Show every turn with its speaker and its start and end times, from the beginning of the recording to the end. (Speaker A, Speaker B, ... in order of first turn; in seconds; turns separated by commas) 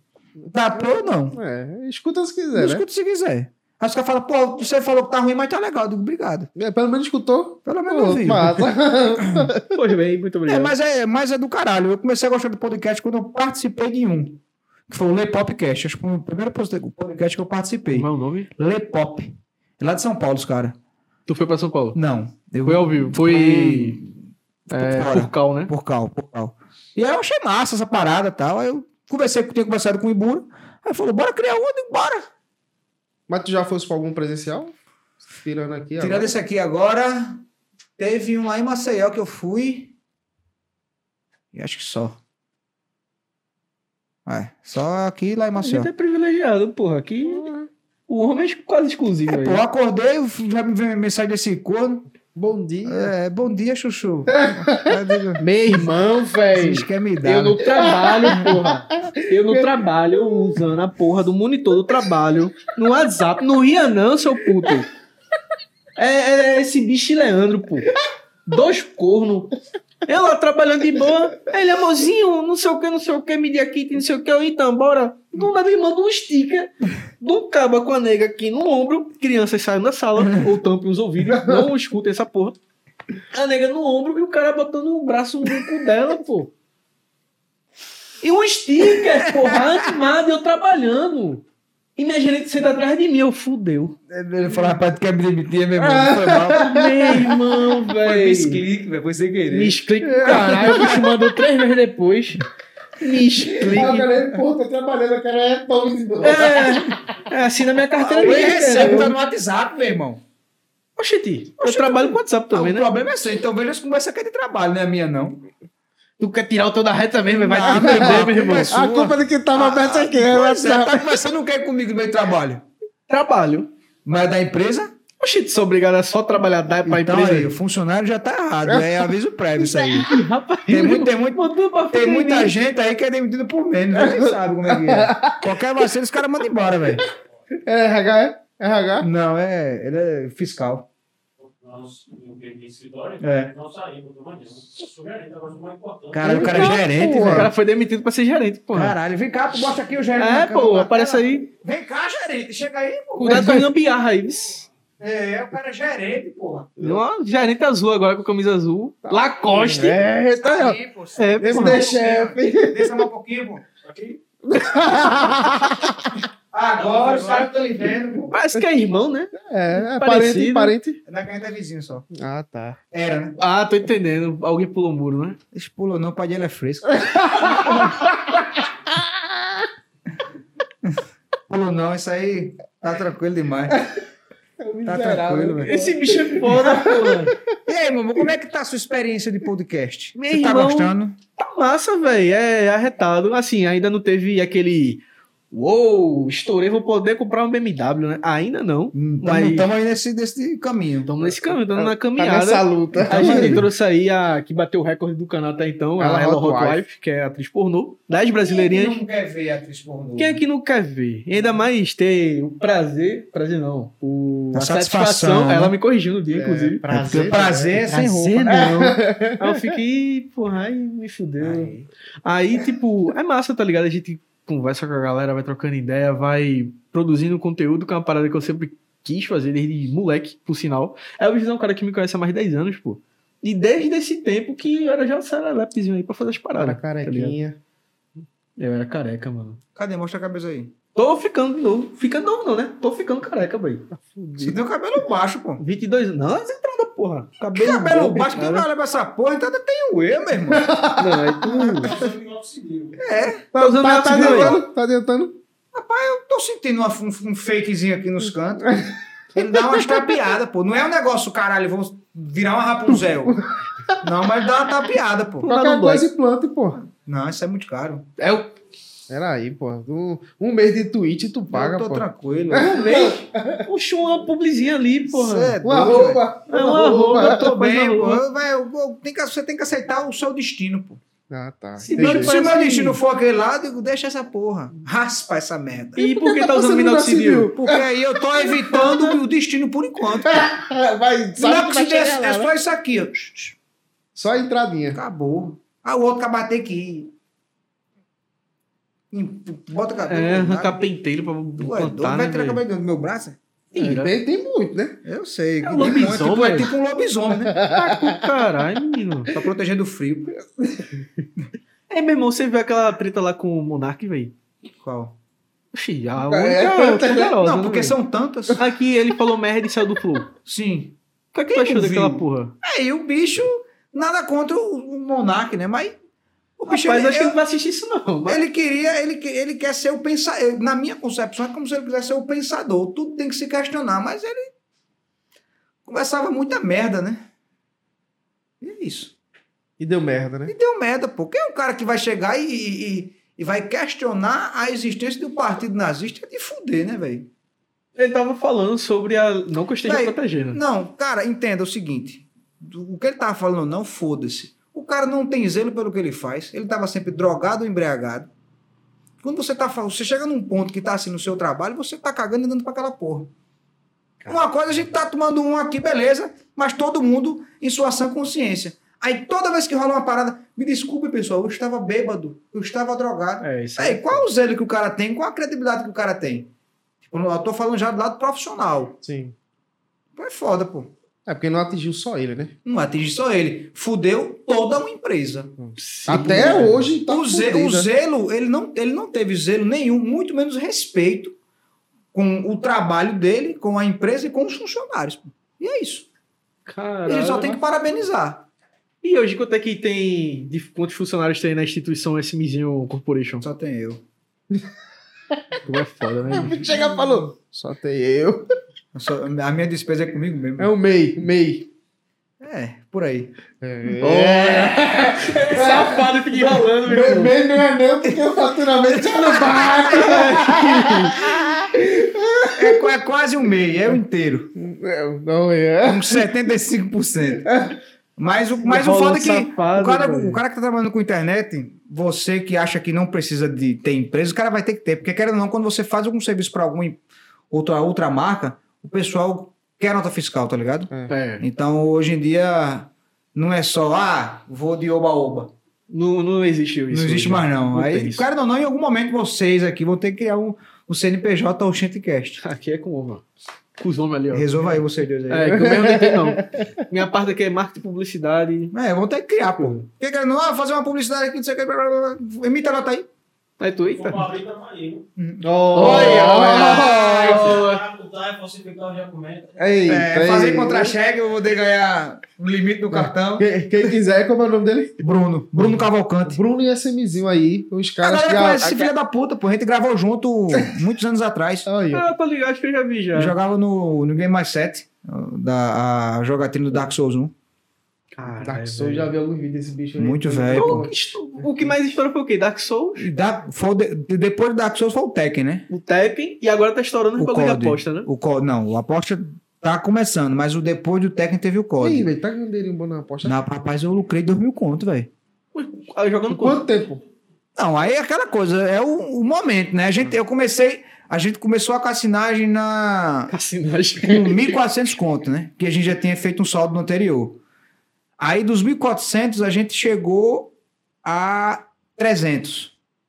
Speaker A: 0.5-1.4, Speaker B: 1.3-2.9, Speaker A: 2.6-6.5, Speaker B: 6.6-9.7, Speaker A: 7.7-9.5, Speaker C: 9.7-10.7, Speaker A: 10.5-20.8, Speaker C: 17.9-18.5, Speaker C: 21.3-22.0, Speaker A: 21.9-24.1, Speaker C: 22.6-24.0, Speaker A: 24.7-32.3, Speaker C: 24.7-25.7, Speaker B: 33.3-34.7, Speaker B: 35.3-36.3, Speaker A: 36.0-37.4, Speaker A: 38.0-39.9, Speaker A: 41.5-42.2, Speaker A: 44.3-45.9, Speaker C: 45.6-47.5, Speaker B: 47.3-47.7, Speaker C: 48.1-49.6, Speaker A: 49.3-52.1, Speaker B: 52.4-53.1, Speaker A: 52.9-55.5, Speaker B: 54.3-55.9, Speaker C: 55.5-64.9, Speaker A: 56.5-57.7, Speaker B: 57.7-59.6, Speaker A: 58.3-58.6, Speaker C: 66.0-67.9, Speaker C: 68.5-69.5, Speaker C: 70.1-82.6, Speaker C: 83.3-86.5, Speaker C: 88.2-91.4, Speaker A: 89.0-89.8, Speaker C: 92.0-94.0, Speaker A: 94.1-97.2, Speaker B: 95.8-97.4, Speaker C: 96.5-98.6, Speaker A: 98.0-99.8, Speaker C: 99.5-102.5, Speaker B: 100.0-101.3, Speaker A: 100.6-100.8, Speaker C: 103.0-104.1, Speaker A: 103.4-104.4, Speaker B: 103.6-106.9, Speaker C: 106.2-109.1, Speaker A: 107.9-110.2, Speaker B: 108.3-109.1, Speaker C: 111.0-112.9, Speaker A: 111.6-115.5, Speaker C: 116.2-118.7, Speaker A: 117.3-122.6, Speaker B: 117.7-121.2, Speaker C: 123.1-123.7, Speaker A: 124.0-124.9, Speaker C: 125.2-127.5, Speaker A: 126.8-130.1, Speaker B: 128.7-129.1, Speaker C: 130.0-132.6, Speaker A: 130.7-137.1, Speaker B: 134.0-135.5, Speaker B: 137.7-139.1, Speaker A: 139.0-140.9, Speaker D: 141.6-146.4, Speaker A: 143.2-143.5, Speaker A: 146.1-147.5, Speaker B: 146.2-147.5, Speaker C: 146.3-148.9, Speaker A: 148.7-153.7, Speaker C: 150.2-151.5, Speaker C: 153.2-154.7, Speaker A: 155.0-156.7, Speaker C: 156.8-160.0, Speaker B: 159.1-160.8, Speaker A: 160.4-165.2, Speaker C: 161.2-161.8, Speaker B: 161.4-163.1, Speaker B: 164.4-166.2, Speaker C: 165.2-165.6, Speaker A: 166.5-168.3, Speaker C: 168.3-169.3, Speaker B: 169.4-171.0, Speaker C: 169.9-170.8, Speaker A: 171.1-172.1, Speaker B: 172.1-172.8, Speaker A: 172.9-173.4, Speaker C: 173.4-175.4, Speaker A: 175.5-178.1, Speaker B: 176.9-179.7, Speaker A: 180.8-183.8, Speaker B: 183.7-184.0, Speaker B: 184.6-187.3, Speaker A: 184.8-185.7, Speaker C: 185.6-187.3, Speaker A: 187.7-191.2, Speaker C: 190.2-199.7, Speaker A: 198.9-201.1, Speaker C: 201.1-209.0, Speaker B: 201.6-203.7, Speaker A: 203.1-203.7, Speaker B: 206.0-206.8, Speaker A: 208.4-210.4, Speaker C: 210.2-216.8, Speaker A: 214.5-215.8, Speaker B: 216.3-219.5, Speaker A: 216.9-218.3, Speaker C: 217.8-237.4, Speaker B: 236.6-237.6, Speaker C: 238.6-239.6, Speaker A: 239.8-240.7, Speaker C: 240.9-243.9, Speaker B: 244.1-244.6, Speaker A: 244.4-245.6, Speaker C: 245.6-248.7, Speaker A: 247.4-250.7, Speaker B: 250.5-251.7, Speaker C: 251.0-252.1, Speaker A: 251.4-251.9, Speaker D: 251.9-253.0, Speaker A: 253.0-253.5, Speaker B: 253.5-255.4, Speaker C: 253.6-254.6, Speaker A: 254.1-254.6, Speaker A: 255.7-258.8, Speaker B: 258.7-258.9, Speaker A: 259.4-263.4, Speaker B: 259.5-260.1, Speaker B: 263.3-264.0, Speaker A: 264.0-265.5, Speaker C: 265.4-266.1, Speaker B: 265.4-266.8, Speaker A: 266.8-268.1, Speaker C: 268.2-268.5, Speaker B: 269.1-273.6, Speaker A: 271.5-272.9, Speaker C: 272.5-275.6, Speaker A: 275.1-276.3, Speaker B: 275.6-277.5, Speaker C: 276.5-278.2, Speaker A: 277.1-281.0, Speaker B: 281.3-282.4, Speaker C: 281.8-283.0, Speaker A: 282.0-286.1, Speaker C: 286.0-287.5, Speaker B: 286.2-287.9, Speaker A: 287.5-290.5, Speaker B: 288.5-288.8, Speaker C: 288.7-289.2, Speaker B: 290.2-292.5, Speaker A: 291.4-293.6, Speaker B: 294.1-295.0, Speaker A: 294.9-297.1, Speaker A: 299.1-300.8, Speaker C: 300.1-302.6, Speaker A: 301.6-303.4, Speaker C: 303.7-304.1, Speaker B: 303.8-305.0, Speaker A: 305.1-307.6, Speaker C: 305.6-306.7, Speaker B: 307.5-308.2, Speaker C: 307.7-309.3, Speaker A: 309.3-310.4, Speaker C: 311.9-314.4, Speaker A: 314.8-315.1, Speaker C: 315.7-318.0, Speaker B: 316.2-317.4, Speaker A: 317.3-318.6, Speaker C: 318.6-320.3, Speaker A: 320.4-321.0, Speaker C: 321.3-322.6, Speaker A: 321.5-326.0, Speaker A: 326.6-327.4, Speaker C: 326.7-328.4, Speaker A: 328.3-334.5, Speaker A: 335.9-337.3, Speaker A: 338.6-339.1, Speaker B: 339.8-340.5, Speaker A: 340.5-347.3, Speaker C: 348.0-350.6, Speaker A: 349.9-358.3, Speaker A: 359.2-363.3, Speaker A: 364.3-376.5, Speaker C: 373.4-374.3, Speaker A: 377.0-378.9, Speaker B: 379.0-379.3, Speaker A: 380.2-380.9, Speaker B: 381.3-382.5, Speaker A: 382.6-385.5, Speaker B: 385.6-387.9, Speaker C: 385.8-386.9, Speaker A: 386.1-391.4, Speaker A: 392.1-396.1, Speaker C: 396.7-397.6, Speaker A: 397.1-398.5, Speaker C: 399.0-403.5, Speaker A: 403.4-404.0, Speaker C: 405.6-406.8, Speaker B: 406.3-408.4, Speaker A: 408.9-410.7, Speaker B: 410.6-411.7, Speaker A: 412.4-413.3, Speaker B: 413.6-416.1, Speaker C: 414.0-417.4, Speaker B: 416.8-422.9, Speaker A: 419.4-420.3, Speaker C: 419.9-421.4, Speaker A: 422.6-424.5, Speaker B: 424.6-426.3, Speaker A: 425.8-427.5, Speaker B: 427.4-427.8, Speaker A: 428.2-445.5, Speaker C: 428.6-430.4, Speaker C: 441.1-441.5, Speaker C: 445.9-448.3, Speaker A: 446.9-452.4, Speaker C: 452.4-453.2, Speaker C: 453.8-454.5, Speaker A: 454.3-455.7, Speaker C: 455.3-458.8, Speaker B: 455.6-456.7, Speaker A: 458.7-463.1, Speaker C: 459.6-459.9, Speaker C: 463.6-464.3, Speaker D: 463.9-465.1, Speaker A: 465.2-467.6, Speaker B: 465.4-467.2, Speaker C: 465.7-467.8, Speaker D: 466.8-469.6, Speaker B: 469.6-470.9, Speaker A: 469.9-473.5, Speaker B: 472.9-474.9, Speaker A: 475.0-476.4, Speaker B: 476.2-478.9, Speaker A: 478.0-481.7, Speaker B: 481.7-482.1, Speaker C: 481.9-483.4, Speaker A: 483.1-487.3, Speaker C: 488.2-489.1, Speaker B: 488.4-491.5, Speaker A: 490.0-490.9, Speaker C: 490.5-493.1, Speaker A: 493.0-495.7, Speaker C: 495.7-498.1, Speaker A: 497.2-502.1, Speaker B: 501.8-503.4, Speaker A: 503.2-505.1, Speaker C: 505.6-506.6, Speaker B: 506.3-507.0, Speaker A: 507.6-513.3, Speaker C: 513.3-514.5, Speaker A: 514.0-517.4, Speaker A: 518.2-520.5, Speaker A: 521.0-522.7